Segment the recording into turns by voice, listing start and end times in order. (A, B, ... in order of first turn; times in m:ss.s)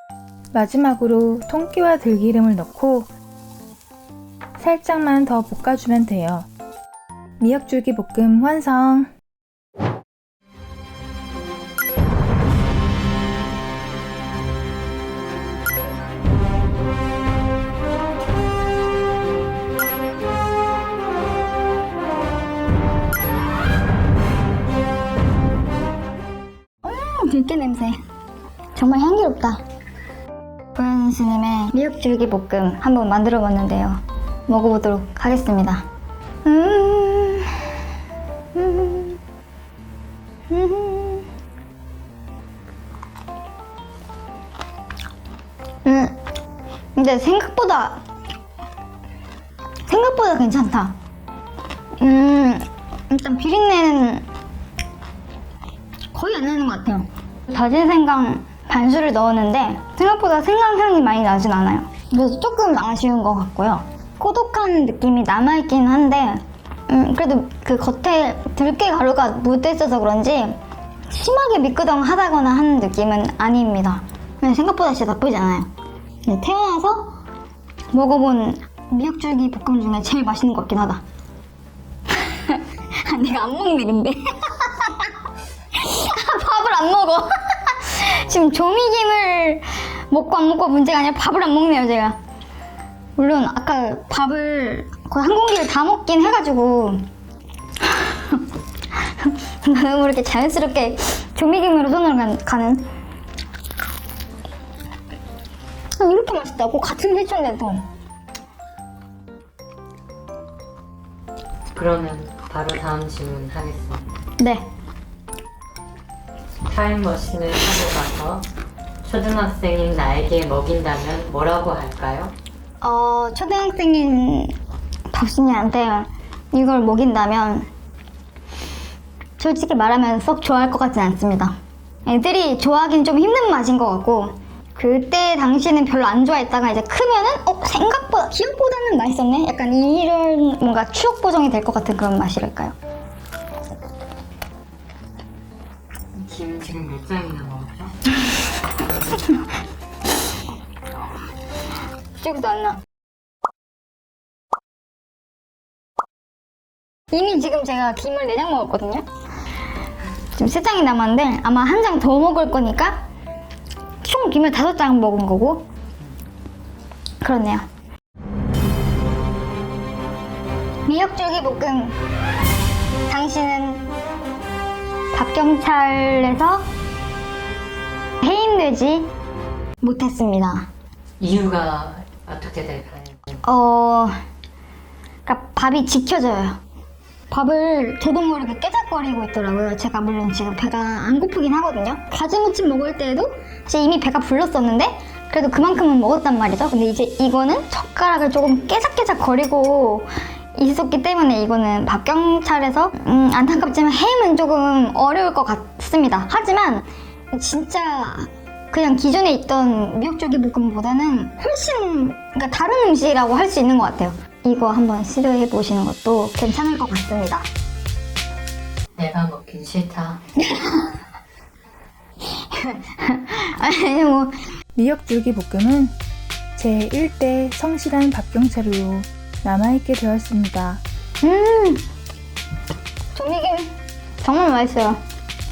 0:00.5-0:03.1 A
0:04.6-0:06.5 A
0:07.4-0:09.1 A
0:26.8-0:28.0 B
0:28.7-0:29.6 B
0:30.7-0:35.8 B
0:36.4-0:37.6 B
0:38.5-0:39.2 B
0:40.5-0:41.3 B
0:45.8-0:46.2 B
0:46.9-0:48.0 B
0:49.9-0:51.0 B
0:52.0-0:54.2 B
0:56.1-1:15.7 B
1:16.2-1:17.2 B
1:17.9-1:21.0 B
1:22.1-1:25.1 B
1:25.7-1:32.2 B
1:33.2-1:37.1 B
1:37.8-1:42.9 B
1:46.0-1:47.9 B
1:51.7-1:54.0 C
1:54.4-1:54.7 B
1:56.6-1:58.4 C
1:59.0-2:02.3 C
2:02.8-2:04.5 B
2:05.1-2:07.7 B
2:09.4-2:22.7 B
2:26.1-2:28.1 C
2:32.2-2:32.8 B
2:37.1-2:39.0 B
2:40.3-2:43.0 B
2:44.0-2:45.6 B
2:47.2-2:47.6 B
2:50.8-2:52.0 B
2:53.1-2:53.9 B
2:55.1-2:56.6 B
2:58.2-2:59.1 B
2:59.8-3:00.7 B
3:01.2-3:03.4 C
3:03.4-3:04.2 B
3:05.2-3:06.6 B
3:07.3-3:37.5 B
3:39.0-3:40.2 C
3:40.4-3:41.0 B
3:42.4-3:44.4 B
3:44.7-3:46.0 A
3:46.6-3:50.8 A
3:51.2-3:51.8 B
3:53.1-3:55.0 B